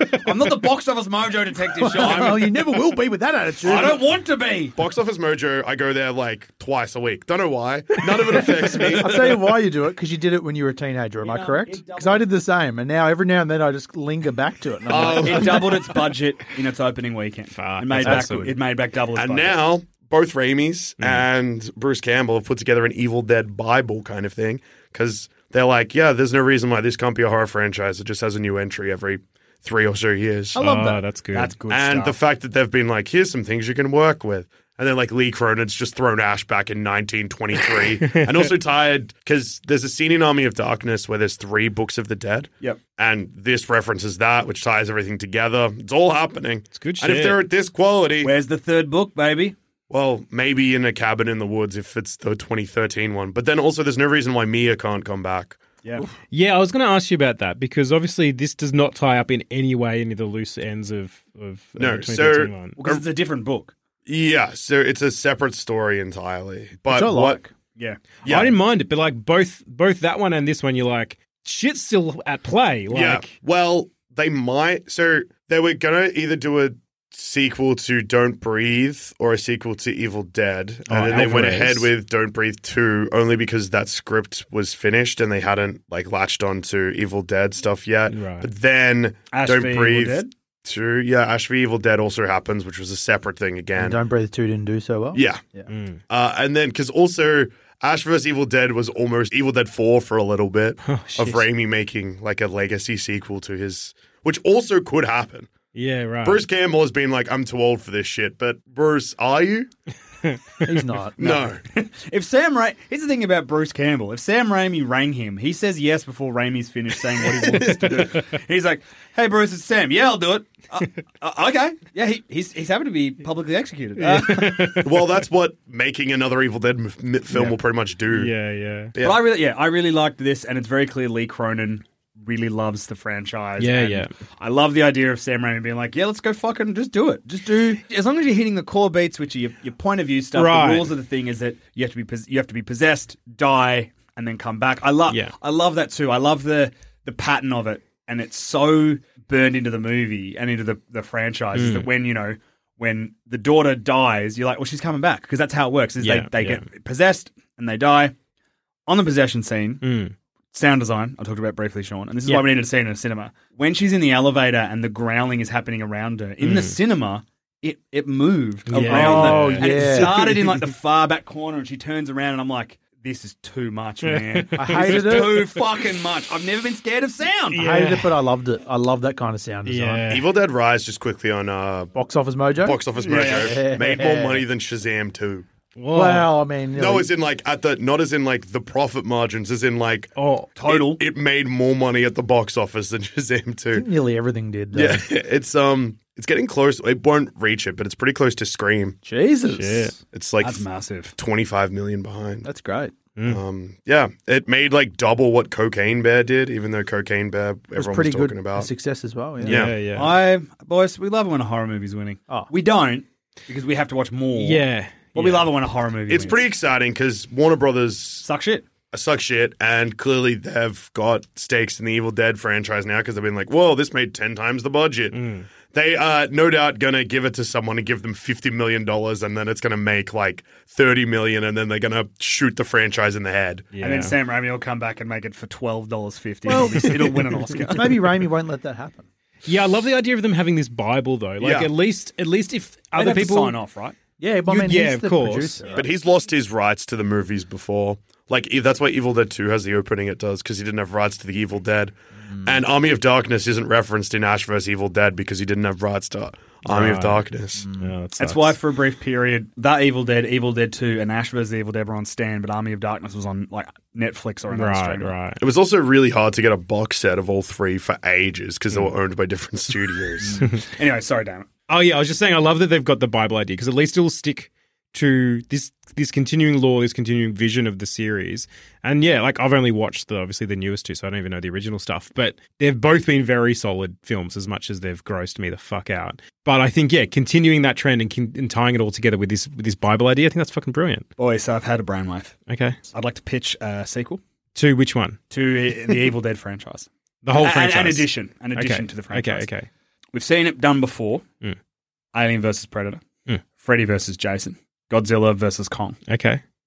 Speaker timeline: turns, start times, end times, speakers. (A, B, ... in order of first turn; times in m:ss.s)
0:00.2-0:02.6 A
0:01.8-0:04.0 B
0:02.0-0:02.5 C
0:03.6-0:04.7 A
0:04.8-0:09.4 C
0:08.4-0:15.6 B
0:11.2-0:12.2 A
0:14.9-0:15.7 C
0:15.2-0:19.6 A
0:17.5-0:18.5 D
0:18.0-0:18.5 B
0:19.1-0:30.6 C
0:30.5-0:31.0 B
0:30.6-0:31.5 D
0:31.3-0:32.2 A
0:31.7-0:48.3 C
0:38.0-0:38.4 D
0:46.7-0:47.4 D
0:48.2-0:49.6 A
0:49.9-0:55.6 C
0:56.3-1:02.8 D
1:01.8-1:03.0 C
1:02.8-1:03.7 A
1:04.0-1:07.4 C
1:06.9-1:07.5 B
1:07.8-1:08.0 A
1:08.2-1:08.5 C
1:08.2-1:13.3 D
1:12.9-1:34.0 C
1:20.9-1:21.9 D
1:28.1-1:28.5 D
1:29.3-1:30.3 A
1:33.8-1:35.7 B
1:35.1-1:35.4 C
1:35.7-1:36.0 D
1:36.1-1:45.5 C
1:40.8-1:41.4 D
1:45.7-1:46.4 D
1:46.2-1:49.7 C
1:50.6-1:51.5 B
1:51.2-1:51.6 C
1:51.7-2:04.8 A
1:57.7-1:58.2 D
2:04.0-2:04.9 D
2:04.8-2:08.3 C
2:08.1-2:08.9 D
2:09.0-2:09.2 C
2:09.0-2:38.1 A
2:13.6-2:14.1 D
2:20.3-2:20.9 D
2:31.5-2:31.9 D
2:36.0-2:36.6 D
2:38.9-2:39.8 A
2:39.8-2:40.1 D
2:40.5-2:57.6 A
2:46.4-2:46.8 D
2:48.7-2:50.3 D
2:48.8-2:50.4 B
2:54.0-2:55.5 D
2:54.6-2:55.4 B
2:57.5-2:58.2 D
2:57.5-3:00.1 B
2:59.6-3:00.2 D
3:00.1-3:01.9 C
3:01.9-3:04.4 B
3:02.6-3:05.4 C
3:03.0-3:04.1 A
3:05.8-3:06.4 D
3:05.9-3:07.1 B
3:06.8-3:10.1 C
3:10.2-3:10.5 D
3:10.6-3:11.0 A
3:10.7-3:13.9 C
3:13.7-3:15.0 B
3:14.7-3:19.0 C
3:19.0-3:20.0 B
3:19.5-3:20.0 D
3:20.1-3:22.5 C
3:20.4-3:21.1 A
3:22.4-3:22.9 B
3:23.2-3:23.4 D
3:23.2-3:28.7 C
3:27.7-3:29.6 B
3:29.4-3:30.2 D
3:29.5-3:29.7 C
3:29.9-3:36.4 A
3:34.4-3:35.5 D
3:36.1-3:38.2 C
3:38.2-3:38.6 A
3:38.9-3:53.7 C
3:45.1-3:45.4 D
3:53.7-3:54.1 D
3:53.8-3:57.9 A
3:56.5-3:57.0 B
3:57.7-3:59.1 B
3:59.4-4:03.6 D
4:01.4-4:01.7 C
4:02.9-4:04.0 A
4:04.2-4:05.8 B
4:04.5-4:05.6 D
4:05.7-4:17.7 C
4:16.7-4:17.2 D
4:17.6-4:17.9 B
4:17.8-4:18.6 D
4:18.2-4:25.1 A
4:24.5-4:25.4 D
4:25.4-4:30.5 C
4:30.3-4:31.6 A
4:31.7-4:51.1 D
4:51.2-4:52.4 A
4:52.5-4:52.8 D
4:52.9-4:54.2 A
4:54.5-4:55.2 D
4:55.3-4:59.5 A
4:57.2-4:59.7 D
5:00.1-5:01.2 A
5:02.1-5:03.0 A
5:03.6-5:06.0 A
5:06.1-5:06.4 D